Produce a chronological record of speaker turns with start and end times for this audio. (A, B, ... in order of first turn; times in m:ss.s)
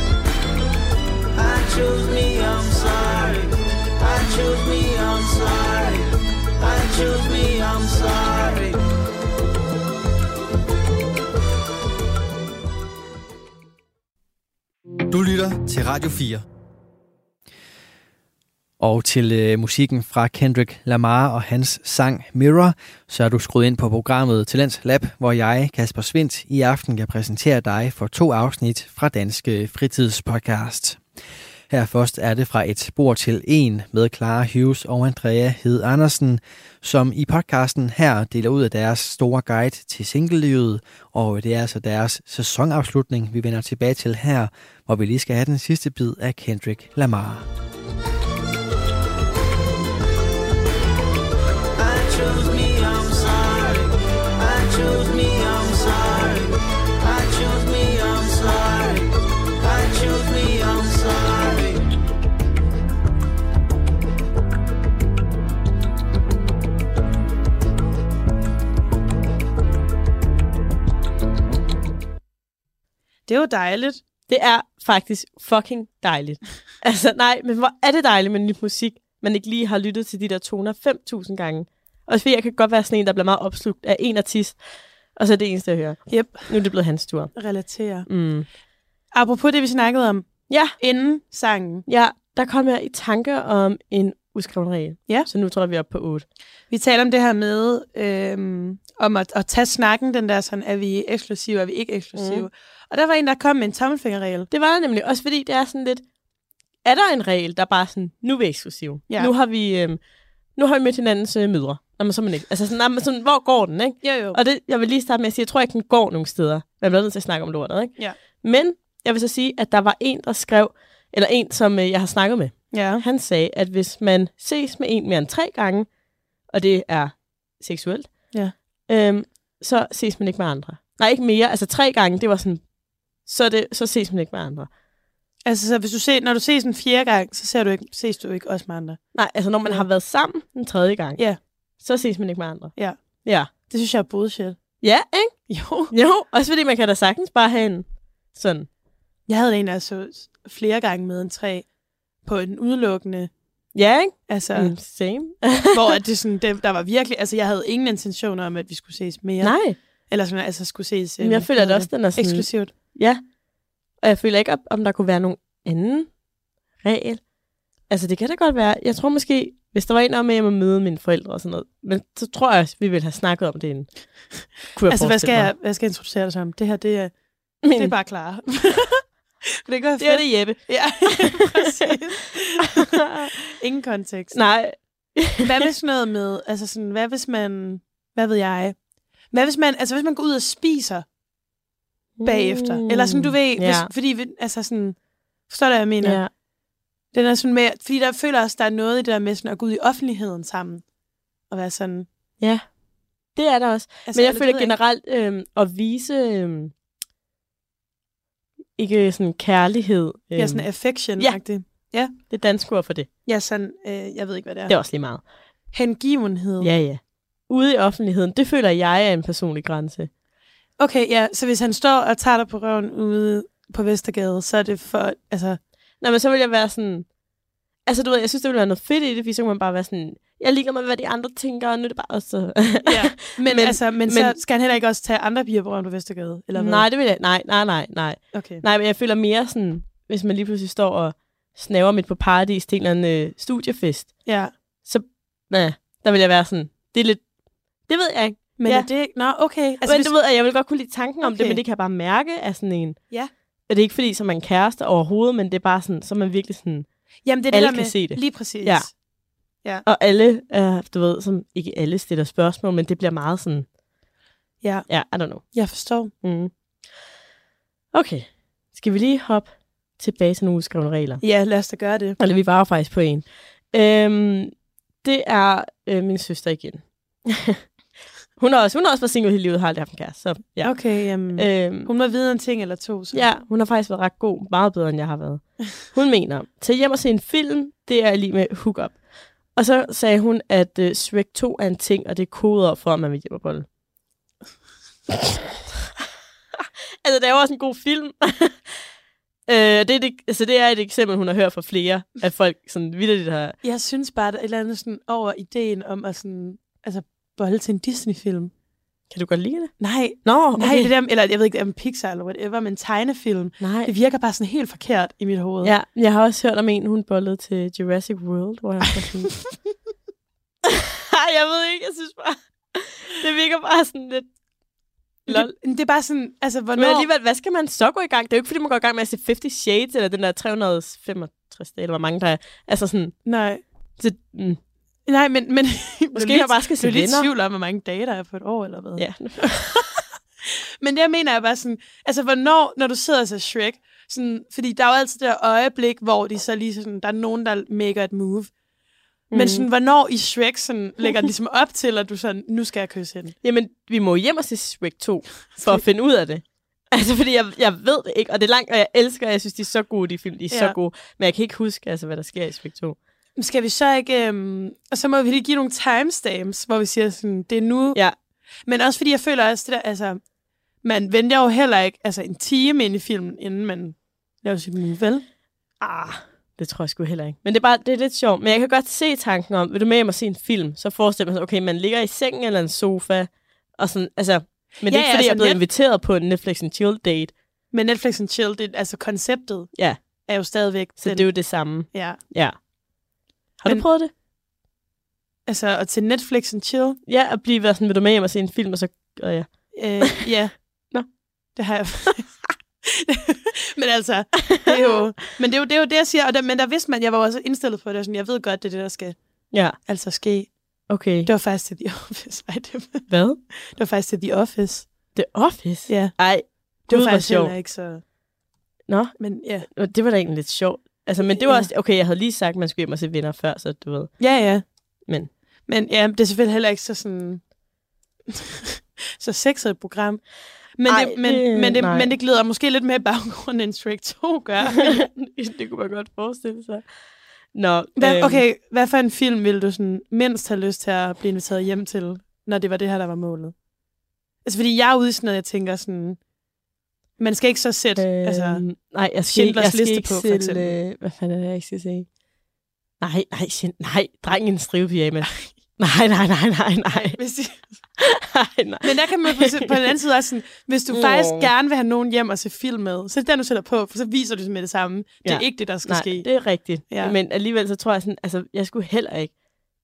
0:01.3-0:08.8 A
0:15.1-0:16.4 B
0:18.8-0:31.0 B
0:31.7-0:47.5 B
0:51.8-1:01.9 A
1:13.3-1:14.0 C
1:14.3-1:24.6 D
1:25.2-1:27.3 D
1:26.1-1:26.5 C
1:27.3-1:28.1 C
1:28.1-1:28.4 D
1:29.1-1:31.8 C
1:30.5-1:30.8 D
1:31.9-1:36.2 D
1:36.7-1:44.5 C
1:42.2-1:42.4 D
1:44.5-1:46.0 D
1:46.8-1:50.0 D
1:50.5-2:05.9 D
1:54.0-1:54.4 C
2:02.7-2:03.0 C
2:06.5-2:08.3 D
2:08.9-2:12.6 D
2:13.2-2:14.7 D
2:15.4-2:19.0 C
2:19.1-2:21.2 D
2:21.8-2:22.7 D
2:23.2-2:23.5 D
2:23.5-2:24.6 C
2:24.8-2:25.3 D
2:25.5-2:25.9 C
2:25.9-2:28.7 D
2:29.3-2:31.6 C
2:32.2-2:33.3 C
2:33.7-2:35.9 D
2:34.3-2:34.7 C
2:35.7-2:42.7 C
2:39.4-2:39.8 D
2:41.2-2:43.2 D
2:44.0-2:46.1 D
2:46.8-2:47.2 D
2:47.9-2:53.9 D
2:54.7-2:55.5 D
2:54.9-2:59.0 C
2:57.6-2:57.9 D
2:59.6-3:03.0 C
3:00.0-3:01.9 D
3:02.6-3:03.3 D
3:03.5-3:04.4 C
3:04.3-3:05.7 D
3:05.4-3:08.8 C
3:09.3-3:11.0 C
3:12.2-3:13.9 D
3:12.2-3:15.0 C
3:15.5-3:16.2 C
3:16.0-3:16.3 D
3:17.1-3:20.8 C
3:21.5-3:22.1 C
3:23.3-3:26.7 D
3:24.1-3:24.7 C
3:28.8-3:31.4 D
3:30.4-3:32.1 C
3:32.3-3:33.1 D
3:33.2-3:34.7 C
3:34.7-3:35.2 D
3:35.7-3:36.7 C
3:36.6-3:40.1 D
3:40.8-3:45.6 C
3:46.0-3:47.1 D
3:47.8-3:54.3 D
3:52.8-3:56.8 C
3:56.5-4:04.2 D
3:58.3-3:58.6 C
4:04.2-4:04.5 C
4:04.8-4:07.2 D
4:07.9-4:08.9 D
4:08.6-4:10.1 C
4:09.8-4:13.0 D
4:11.2-4:11.6 C
4:13.7-4:16.9 D
4:17.2-4:18.9 C
4:17.5-4:18.9 D
4:19.8-4:23.7 D
4:24.6-4:24.9 C
4:24.9-4:25.5 D
4:25.5-4:26.1 C
4:26.2-4:26.5 D
4:27.9-4:31.2 D
4:31.2-4:32.2 C
4:32.2-4:34.5 D
4:35.0-4:37.6 D
4:38.4-4:40.7 D
4:40.6-4:43.2 C
4:41.4-4:41.9 D
4:43.1-4:49.0 D
4:49.5-4:53.7 D
4:57.0-4:58.7 D
4:59.5-5:03.6 D
5:03.6-5:08.5 C
5:09.1-5:10.9 D
5:09.8-5:15.7 C
5:13.6-5:13.9 D
5:15.6-5:19.3 D
5:20.6-5:24.3 D
5:25.2-5:27.1 C
5:26.8-5:33.2 D
5:33.2-5:33.6 C
5:34.0-5:34.6 D
5:35.1-5:39.0 C
5:36.1-5:37.3 D
5:39.0-5:40.0 D
5:40.4-5:48.5 C
5:49.3-5:49.7 D
5:49.3-5:53.3 C
5:53.4-6:03.0 D
5:55.5-5:55.8 C
6:00.5-6:00.8 C
6:03.4-6:08.0 C
6:08.6-6:10.2 C
6:10.8-6:15.2 C
6:15.8-6:27.3 D
6:24.8-6:25.6 C
6:27.7-6:32.2 C
6:31.0-6:32.6 D
6:33.6-6:34.1 D
6:35.5-6:37.0 C
6:37.1-6:40.2 D
6:39.7-6:40.6 C
6:41.6-6:49.2 C
6:44.4-6:44.7 D
6:49.5-6:49.8 D
6:49.8-6:50.5 C
6:50.9-6:51.3 D
6:51.2-6:53.1 C
6:53.1-6:53.4 D
6:53.7-6:54.9 C
6:55.1-6:57.5 D
6:55.9-6:56.2 C
6:56.8-6:58.0 C
6:58.9-7:04.2 D
6:59.2-6:59.7 C
7:01.3-7:01.7 C
7:04.2-7:04.6 C
7:05.7-7:07.4 C
7:08.3-7:10.2 C
7:10.8-7:15.0 C
7:10.9-7:12.1 D
7:14.7-7:16.8 D
7:17.5-7:18.4 D
7:18.0-7:23.5 C
7:24.4-7:26.2 C
7:27.2-7:28.6 C
7:28.0-7:32.1 D
7:29.3-7:30.8 C
7:33.0-7:37.2 D
7:36.9-7:37.6 C
7:38.0-7:39.9 D
7:38.8-7:46.3 C
7:40.9-7:41.5 D
7:45.2-7:49.3 D
7:46.9-7:47.1 C